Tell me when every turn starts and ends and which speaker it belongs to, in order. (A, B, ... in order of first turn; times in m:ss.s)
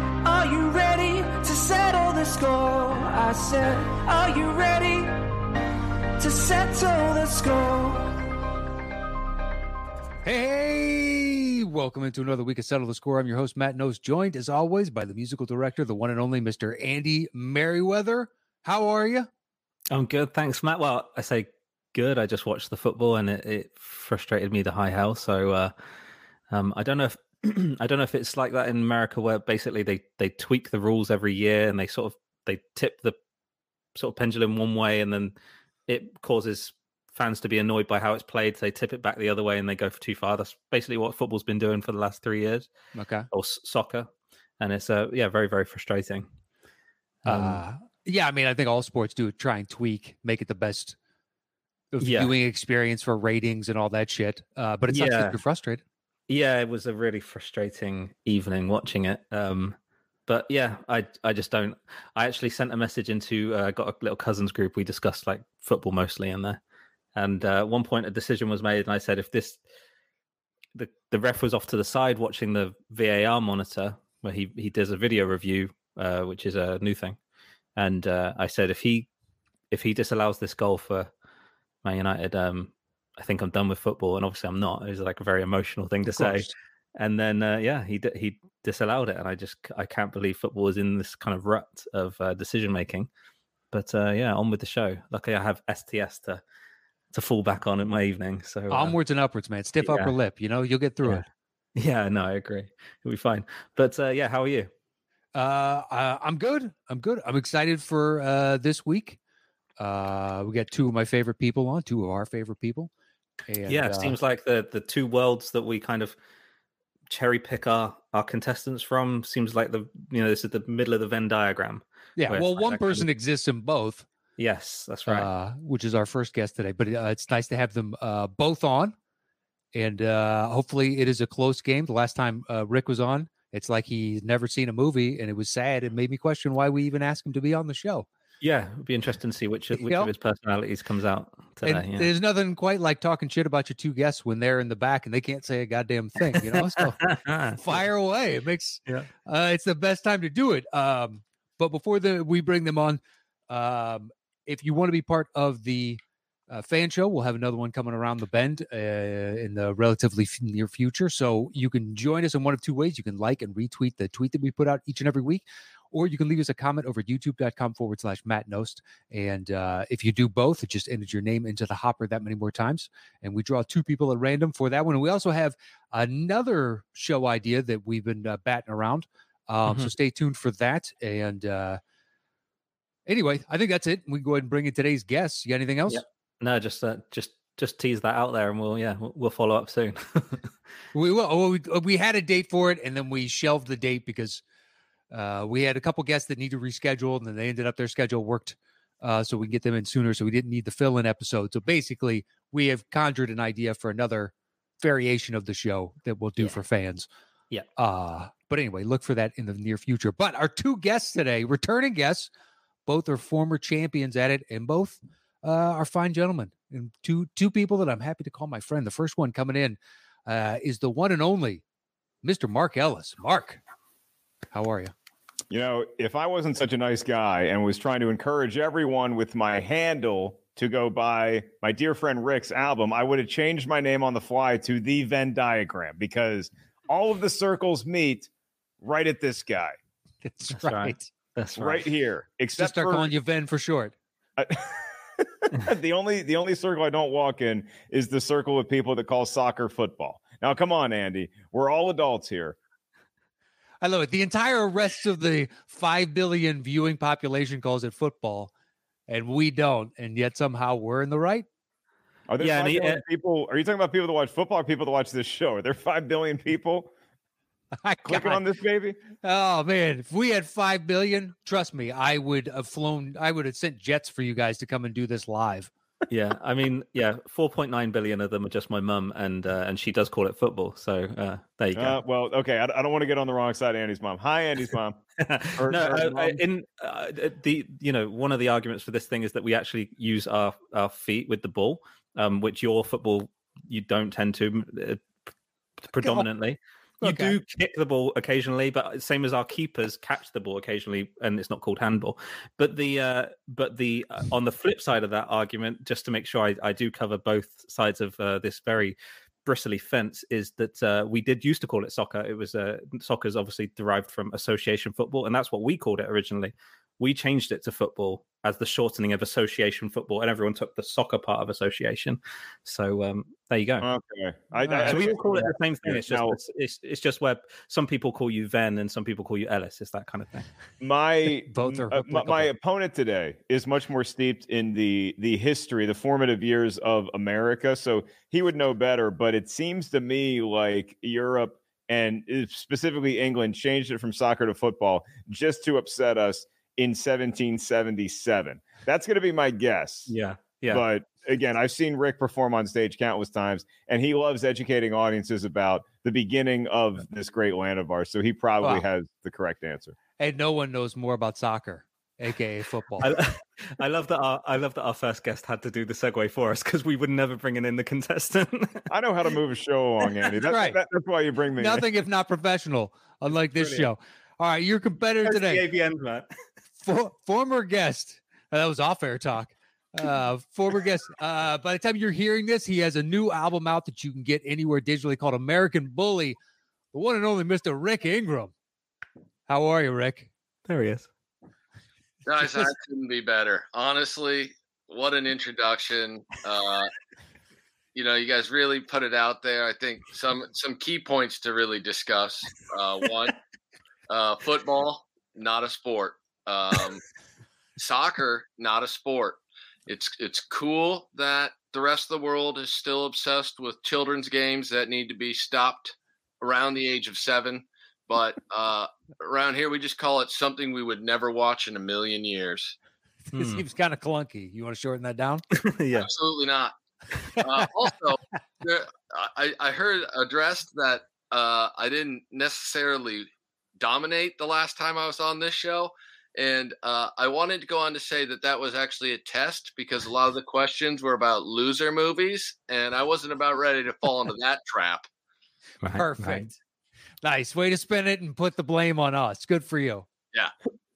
0:00.2-0:05.3 A
0:06.2-0:08.2 A
0:10.2-0:19.3 B
0:19.9-0:25.7 C
0:26.5-0:33.2 C
0:34.0-0:35.4 C
0:35.9-0:42.7 C
0:43.0-0:43.3 B
0:43.3-0:46.3 C
0:47.2-0:51.0 B
0:47.3-0:47.6 C
0:51.9-0:55.8 B
0:52.0-0:52.3 C
0:54.9-0:55.4 C
0:56.3-1:06.6 C
1:07.2-1:09.6 C
1:10.8-1:17.2 C
1:17.8-1:19.1 C
1:19.7-1:21.1 C
1:21.8-1:33.1 C
1:26.1-1:26.5 B
1:33.7-1:36.4 C
1:37.1-1:39.0 C
1:38.7-1:41.2 B
1:39.8-1:40.1 C
1:41.8-1:44.7 C
1:45.4-1:49.2 B
1:49.8-1:52.9 B
1:53.5-1:54.2 B
1:53.7-1:56.2 C
1:57.1-2:03.1 C
2:02.2-2:04.1 B
2:04.4-2:05.3 C
2:05.1-2:09.0 B
2:09.7-2:18.1 B
2:18.4-2:22.1 C
2:19.7-2:20.1 B
2:21.6-3:01.8 B
2:26.4-2:27.8 C
3:03.1-3:06.0 B
3:05.9-3:10.5 C
3:10.9-3:14.4 B
3:15.1-3:27.1 B
3:27.8-3:32.3 B
3:32.9-3:41.6 B
3:42.2-3:43.6 B
3:44.5-3:44.9 B
3:45.5-3:58.3 D
3:58.8-3:59.8 D
4:00.2-4:01.1 B
4:00.5-4:01.8 C
4:01.6-4:03.1 D
4:02.5-4:04.0 B
4:04.4-4:12.6 D
4:13.8-4:18.5 B
4:19.1-4:21.5 B
4:22.3-4:26.9 D
4:22.4-4:23.0 C
4:27.8-4:28.4 B
4:28.1-4:29.0 D
4:29.2-4:35.7 B
4:36.1-4:42.0 C
4:41.8-4:45.0 D
4:45.2-4:55.0 C
4:45.6-4:46.4 D
4:55.8-5:23.9 C
4:56.0-4:56.3 B
4:57.0-4:57.4 B
5:23.8-5:26.4 D
5:24.6-5:25.0 B
5:24.8-5:30.5 C
5:30.8-5:50.1 D
5:31.5-5:32.5 B
5:50.1-5:50.8 C
5:50.7-6:00.0 D
6:00.2-6:03.2 B
6:03.0-6:08.9 C
6:08.9-6:11.9 D
6:10.4-6:10.8 B
6:11.6-6:15.6 B
6:13.6-6:13.9 C
6:15.2-6:16.3 C
6:16.8-6:26.4 B
6:26.9-6:28.5 B
6:29.5-6:30.3 B
6:30.7-6:31.1 C
6:32.3-6:36.9 E
6:37.9-6:43.4 E
6:44.1-6:47.0 E
6:47.8-7:02.8 E
7:03.3-7:05.4 B
7:03.3-7:03.6 C
7:05.6-7:06.1 C
7:05.9-7:06.8 E
7:07.3-7:13.3 E
7:13.8-7:25.1 E
7:25.8-7:26.5 C
7:26.0-7:26.5 B
7:27.2-7:30.1 B